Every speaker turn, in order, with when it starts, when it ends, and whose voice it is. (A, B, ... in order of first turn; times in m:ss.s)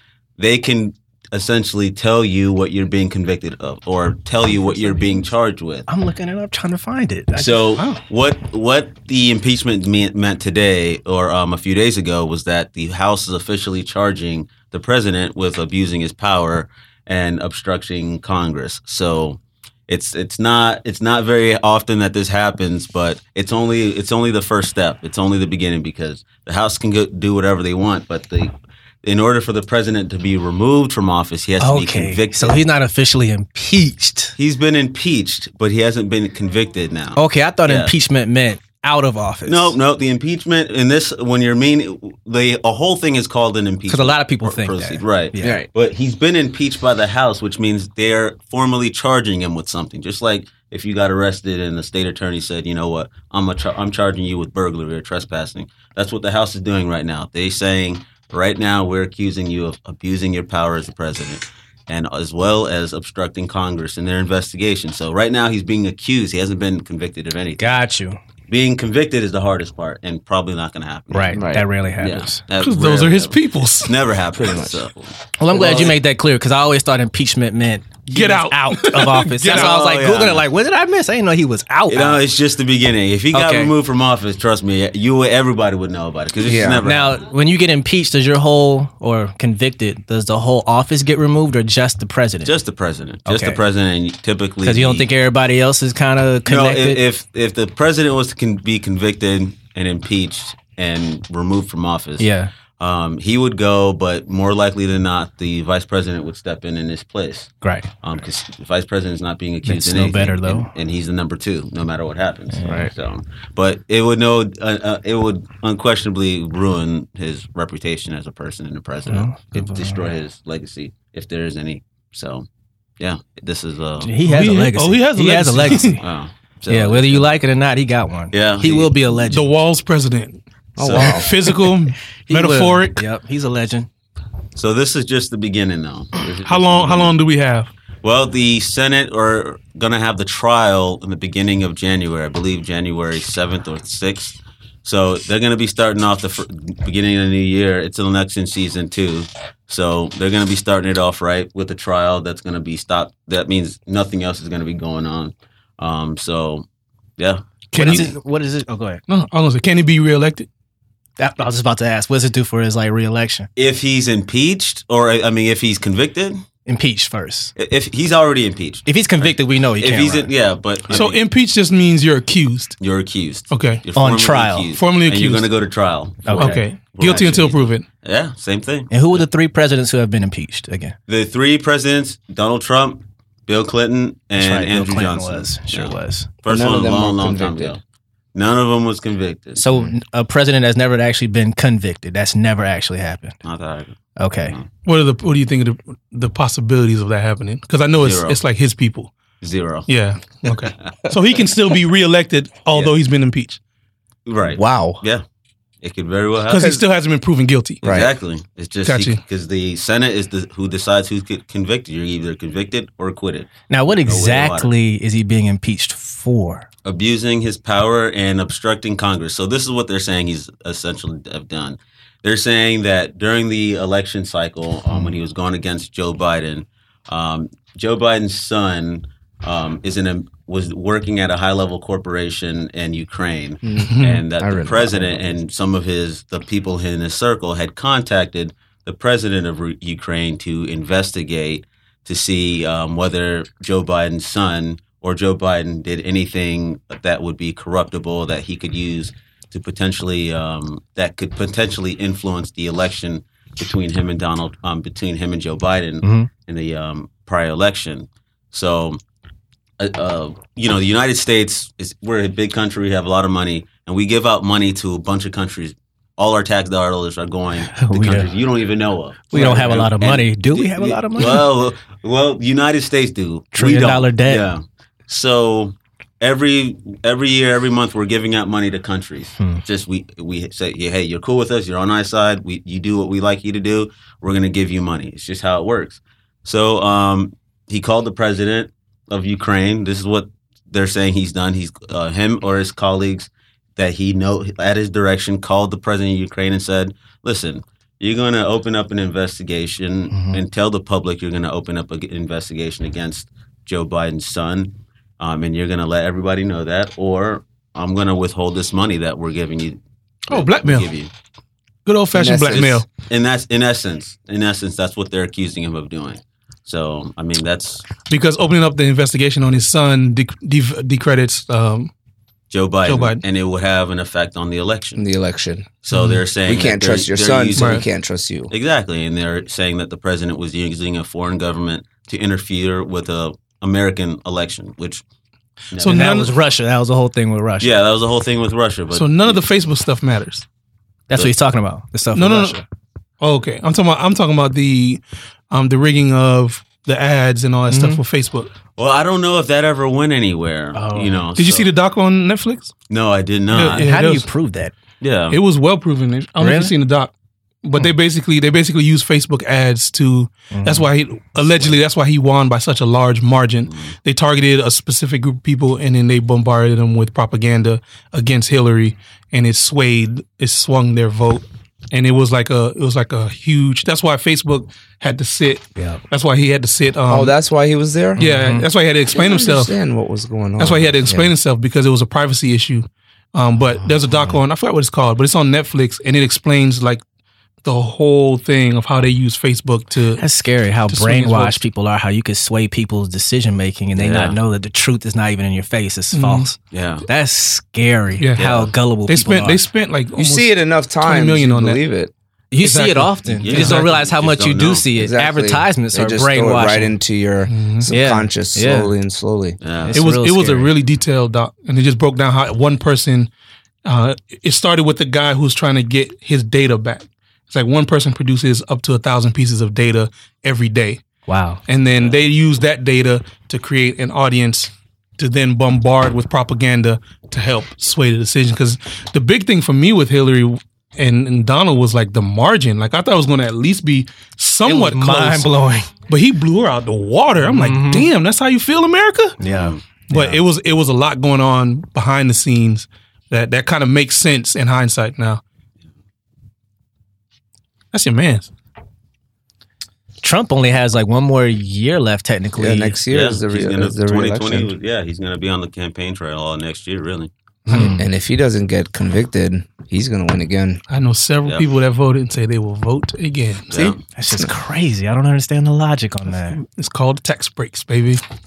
0:00.4-0:05.9 A
0:05.9-0:07.8 B
0:07.4-0:32.6 A
0:31.6-0:34.4 B
0:34.4-0:37.9 A
0:37.2-0:39.8 B
0:39.5-1:07.8 A
0:43.9-0:45.6 B
0:45.4-0:45.7 C
1:07.6-1:08.2 B
1:08.5-1:16.0 A
1:11.1-1:12.4 B
1:11.3-1:11.7 C
1:12.6-1:13.9 D
1:14.4-1:14.8 C
1:15.4-1:22.2 B
1:18.1-1:19.7 D
1:19.4-1:20.5 A
1:21.9-1:27.3 A
1:23.3-1:23.7 B
1:26.4-1:26.8 C
1:26.8-1:32.6 B
1:32.4-1:35.1 A
1:33.3-1:33.6 B
1:34.6-1:37.0 B
1:36.5-1:42.3 A
1:42.2-1:42.5 B
1:42.8-2:02.5 A
1:47.6-1:47.9 B
1:49.6-1:50.7 B
1:52.5-1:52.9 B
1:59.1-2:00.1 B
2:03.0-2:04.1 A
2:04.0-2:06.0 B
2:04.2-2:06.0 D
2:05.8-2:07.4 A
2:06.7-2:09.5 B
2:08.3-2:08.9 A
2:09.3-2:10.4 D
2:10.8-2:11.5 C
2:10.8-2:11.2 A
2:10.9-2:13.0 D
2:12.3-2:13.9 B
2:14.6-2:17.2 A
2:16.4-2:17.7 D
2:18.0-2:36.7 A
2:37.2-2:38.1 A
2:37.7-2:38.2 D
2:37.7-2:39.0 B
2:39.1-2:40.5 D
2:41.2-2:43.5 B
2:43.6-2:46.4 A
2:46.7-2:47.5 B
2:47.6-2:51.2 A
2:48.9-2:50.3 B
2:50.9-2:52.8 D
2:52.8-2:59.2 A
2:53.5-2:53.8 D
2:54.0-2:54.7 B
2:54.7-2:55.5 D
2:56.2-2:56.7 B
2:56.4-2:57.8 D
2:58.9-3:01.0 B
3:01.1-3:07.8 A
3:04.4-3:06.3 B
3:06.5-3:07.8 C
3:08.3-3:09.7 A
3:09.6-3:13.4 B
3:13.4-3:14.0 A
3:14.2-3:14.6 B
3:14.8-3:19.1 D
3:18.0-3:18.4 A
3:19.4-3:19.9 A
3:19.9-3:23.6 D
3:24.3-3:25.2 A
3:24.4-3:25.0 C
3:25.8-3:26.7 A
3:26.5-3:27.8 D
3:26.5-3:26.8 C
3:27.8-3:28.1 C
3:27.8-3:33.5 A
3:28.8-3:29.2 D
3:33.7-3:36.7 B
3:34.1-3:34.7 A
3:36.8-4:19.0 A
3:53.6-3:55.4 C
3:53.8-3:54.2 D
4:16.0-4:16.3 B
4:19.8-5:11.1 A
4:27.7-4:28.3 B
4:29.3-4:31.4 B
4:33.5-4:34.5 B
5:00.1-5:00.4 B
5:10.3-5:10.9 D
5:11.9-5:12.9 D
5:12.1-5:12.8 C
5:12.5-5:17.9 A
5:18.1-5:21.9 D
5:22.5-5:25.1 A
5:22.8-5:23.2 D
5:25.0-5:25.7 C
5:25.8-5:27.9 A
5:25.9-5:26.2 D
5:26.5-5:28.5 C
5:27.6-5:27.8 D
5:28.5-5:35.0 A
5:35.7-5:36.3 A
5:35.8-5:36.3 D
5:35.8-5:37.8 B
5:37.6-5:39.4 A
5:38.9-5:40.4 D
5:41.1-5:42.6 B
5:42.1-5:42.6 D
5:43.2-5:48.5 D
5:47.7-5:48.0 B
5:48.8-5:51.7 A
5:50.7-5:51.2 B
5:51.4-5:52.7 D
5:52.9-5:53.9 A
5:53.5-5:54.3 D
5:53.7-5:54.7 B
5:55.0-5:55.4 A
5:55.3-5:57.1 D
5:56.4-5:56.7 B
5:57.6-6:17.3 D
6:00.5-6:00.9 B
6:03.7-6:03.9 A
6:15.8-6:16.0 B
6:17.1-6:18.3 C
6:18.2-6:18.7 B
6:18.2-6:19.7 D
6:19.1-6:21.3 C
6:20.6-6:27.0 D
6:23.8-6:24.3 C
6:27.6-6:30.2 D
6:30.2-6:39.6 B
6:30.9-6:31.6 D
6:34.0-6:34.4 A
6:36.1-6:36.5 D
6:36.7-6:37.1 A
6:38.2-6:41.8 D
6:38.4-6:38.7 A
6:40.2-6:42.1 C
6:42.5-6:47.0 B
6:42.6-6:43.9 D
6:43.4-6:44.9 A
6:45.0-6:49.6 C
6:47.5-6:47.9 D
6:47.9-6:48.9 B
6:49.6-6:50.0 A
6:49.8-6:50.7 B
6:49.9-6:53.3 D
6:53.8-7:01.0 D
7:01.3-7:01.6 B
7:01.7-7:15.5 D
7:14.6-7:15.9 B
7:16.1-7:19.4 D
7:17.4-7:18.1 B
7:19.4-7:19.8 B
7:19.4-7:19.8 A
7:20.1-7:25.4 D
7:20.1-7:20.4 C
7:27.9-7:28.5 D
7:30.2-7:33.0 B
7:32.6-7:34.7 C
7:33.1-7:37.3 A
7:37.7-7:38.1 B
7:37.7-7:40.8 C
7:40.9-7:43.7 D
7:43.7-7:44.0 A
7:43.7-7:44.5 C
7:44.2-7:46.6 B
7:46.5-7:48.2 D